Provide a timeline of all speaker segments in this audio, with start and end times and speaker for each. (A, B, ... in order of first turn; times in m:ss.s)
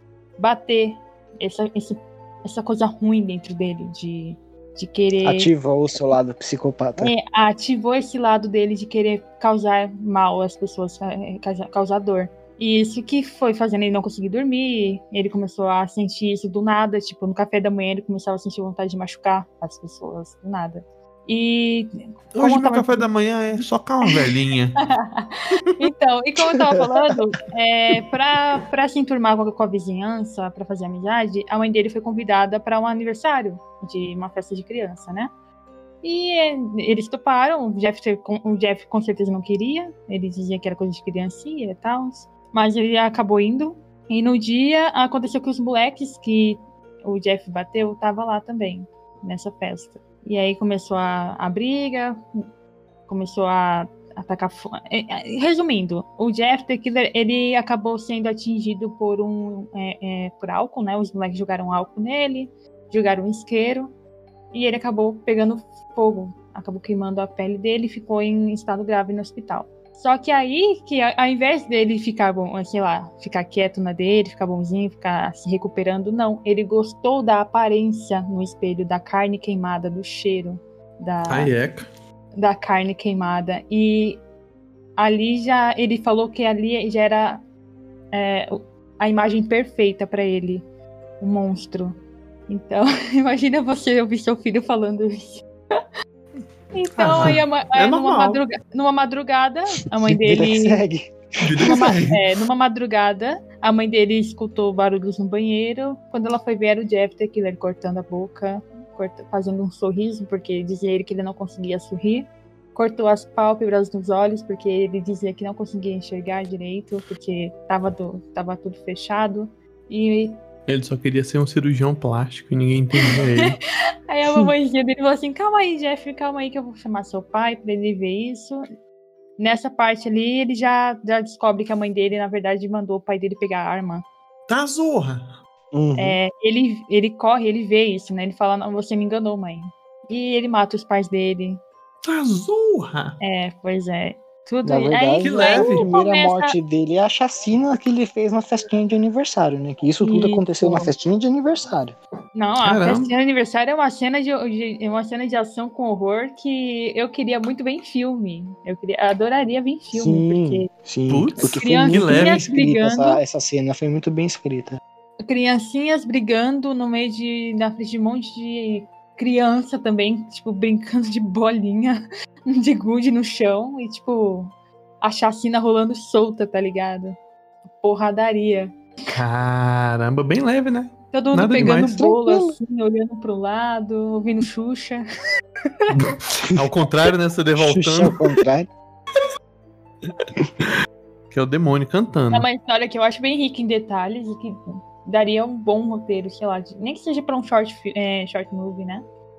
0:00.4-0:05.5 A
0:05.2-0:07.1 B
0:07.0-0:23.1 A
0:22.3-0:24.8 C
0:24.8-0:35.3 A
0:26.7-0:27.1 B
0:36.0-0:52.2 A
0:53.1-1:03.9 A
1:04.5-1:21.5 A
1:21.3-1:21.9 C
1:22.4-1:24.2 A
1:25.0-1:27.4 A
1:28.1-1:30.6 A
1:31.2-1:35.5 A
1:36.7-1:40.8 A
1:37.0-1:38.4 C
1:37.1-1:37.4 B
1:40.0-1:41.9 B
1:41.4-1:42.2 C
1:41.6-2:00.4 A
2:00.7-2:03.6 C
2:04.1-2:08.6 A
2:09.4-2:14.0 A
2:14.5-2:15.4 C
2:15.7-2:16.2 B
2:16.0-2:21.6 A
2:22.0-2:23.2 C
2:23.2-2:26.6 A
2:24.6-2:32.0 B
2:25.2-2:25.9 C
2:30.0-2:30.9 A
2:32.4-2:40.7 A
2:32.6-2:33.1 C
2:39.9-2:44.8 B
2:41.1-2:42.4 C
2:41.4-2:43.2 A
2:45.2-2:58.8 A
2:59.1-3:02.0 C
3:01.1-3:05.0 A
3:01.6-3:02.6 B
3:06.0-3:08.2 C
3:07.6-3:08.7 B
3:11.3-3:12.5 C
3:12.3-3:19.0 A